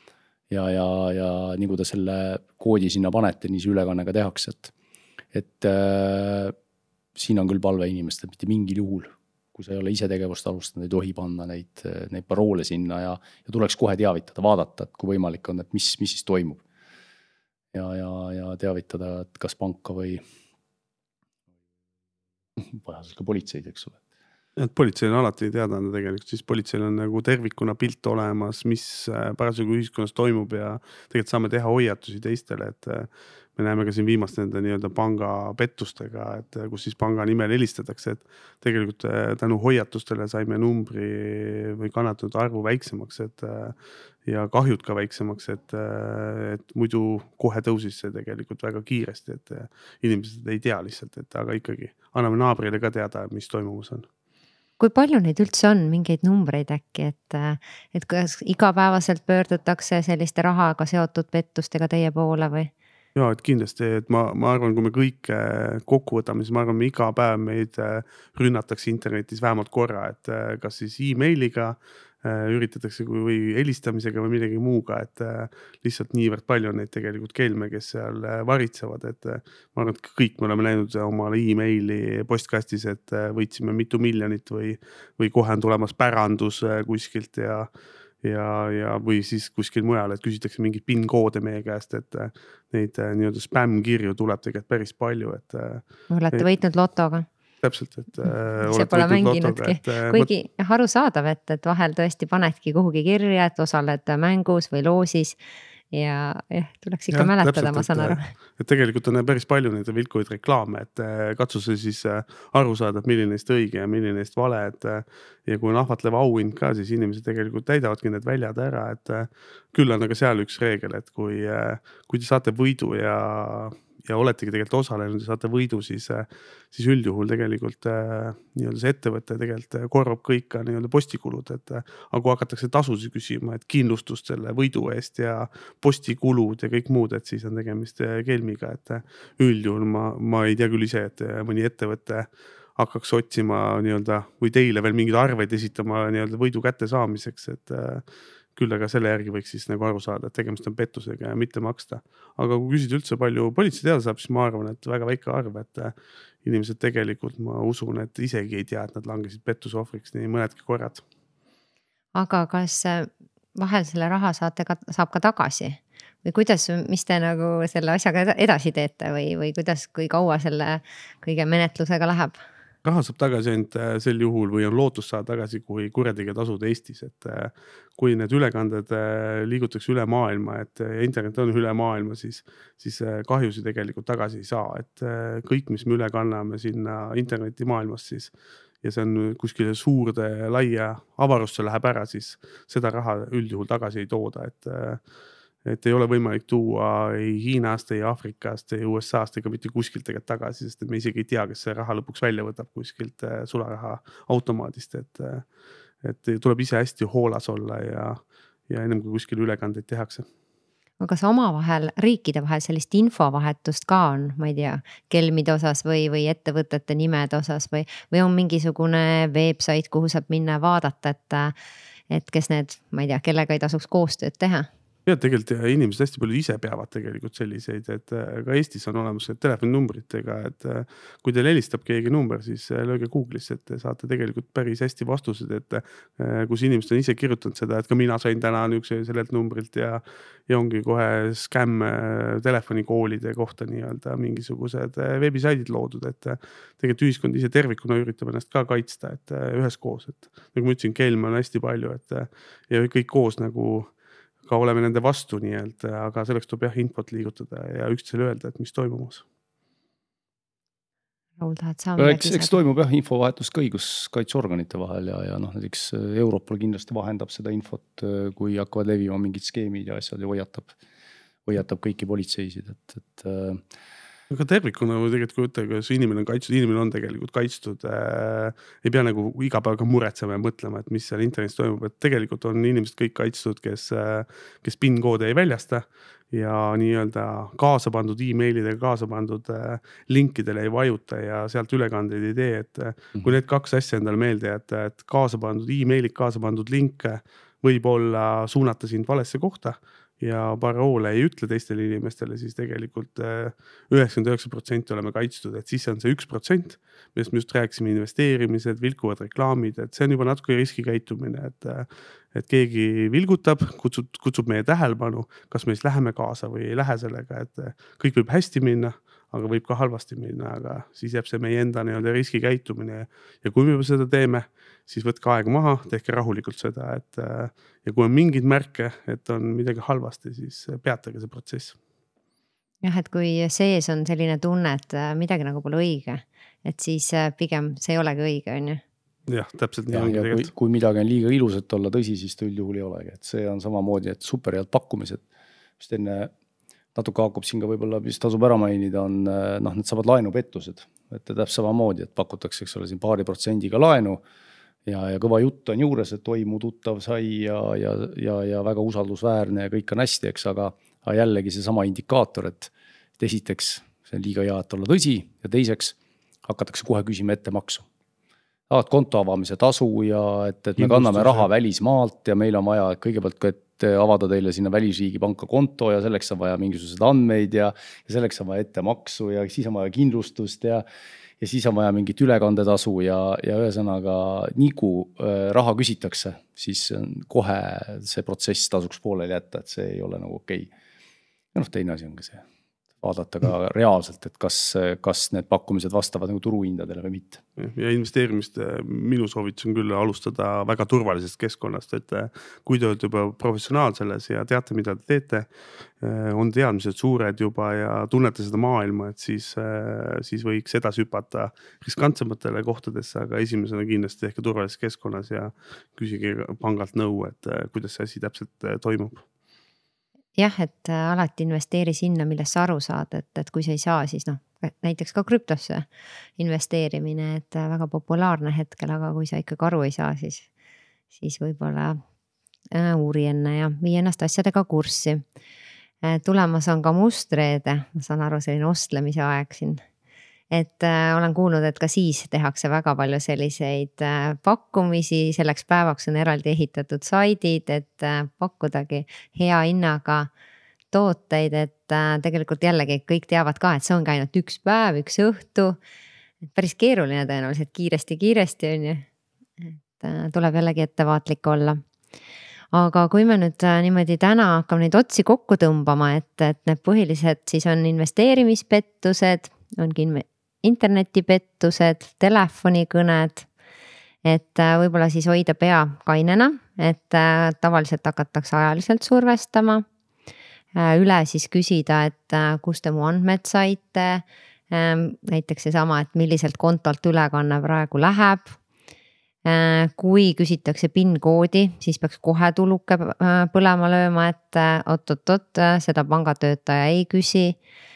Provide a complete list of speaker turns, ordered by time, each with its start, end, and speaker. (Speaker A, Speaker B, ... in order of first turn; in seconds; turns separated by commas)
Speaker A: 0.5-4.7, Speaker A: 5.3-6.5, Speaker A: 7.2-16.6, Speaker A: 17.7-20.2, Speaker A: 22.6-24.0, Speaker B: 24.6-43.7, Speaker B: 44.2-54.1, Speaker C: 54.8-62.7, Speaker B: 63.1-87.7, Speaker B: 88.2-96.5, Speaker C: 96.1-97.3, Speaker B: 97.6-100.3, Speaker C: 98.2-105.4, Speaker C: 105.9-108.3, Speaker B: 107.1-148.0, Speaker B: 148.6-161.0, Speaker C: 162.1-172.4, Speaker B: 172.8-195.0, Speaker B: 195.6-205.4, Speaker B: 206.0-210.3, Speaker C: 211.0-221.5, Speaker C: 222.1-224.7, Speaker B: 225.1-253.9, Speaker B: 254.4-259.2, Speaker C: 261.4-262.5, Speaker A: 262.0-270.7, Speaker A: 271.4-273.6, Speaker B: 274.3-331.8, Speaker C: 332.8-338.8, Speaker B: 339.3-340.5, Speaker A: 339.9-345.2, Speaker A: 345.8-346.3, Speaker A: 346.9-354.2, Speaker A: 354.9-367.9, Speaker A: 368.7-380.8, Speaker B: 370.8-371.5, Speaker A: 381.4-390.7, Speaker A: 391.5-392.4, Speaker A: 393.0-397.4, Speaker B: 397.6-405.5, Speaker B: 406.0-419.2, Speaker C: 420.4-425.9, Speaker C: 426.4-430.5, Speaker C: 431.1-432.0, Speaker C: 432.7-435.2, Speaker C: 436.0-439.8, Speaker C: 440.5-450.3, Speaker C: 450.9-455.8, Speaker C: 456.5-459.1, Speaker C: 459.6-461.8, Speaker C: 462.7-473.5, Speaker C: 474.2-479.8, Speaker C: 480.7-488.6, Speaker C: 489.4-497.6